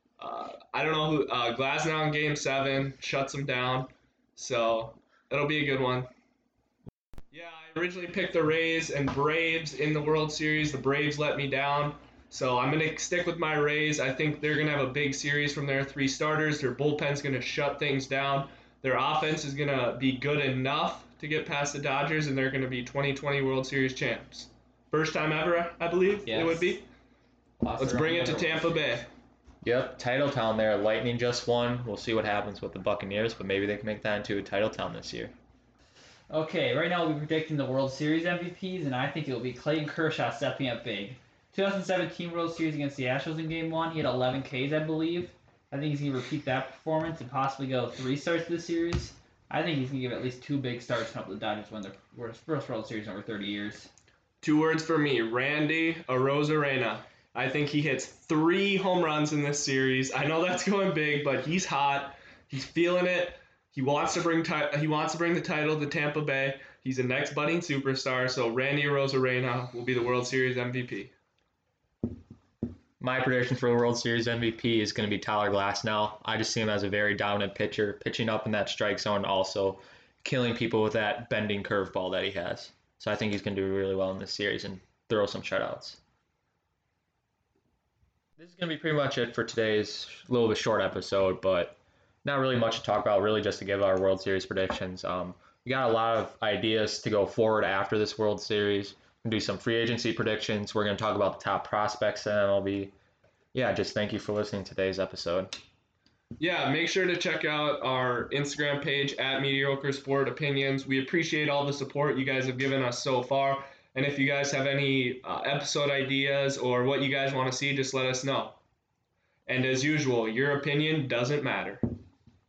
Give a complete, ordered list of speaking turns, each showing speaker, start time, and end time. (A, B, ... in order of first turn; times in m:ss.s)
0:00.2-0:06.1 A
0:07.3-0:26.8 A
0:26.2-0:26.8 B
0:27.6-0:29.0 B
0:27.8-0:29.1 A
0:29.6-0:35.3 C
0:36.3-0:53.9 B
0:54.4-1:11.1 A
1:13.0-1:26.0 C
1:28.4-1:42.9 C
1:43.5-1:45.5 C
1:46.4-1:58.6 A
1:59.5-2:01.8 A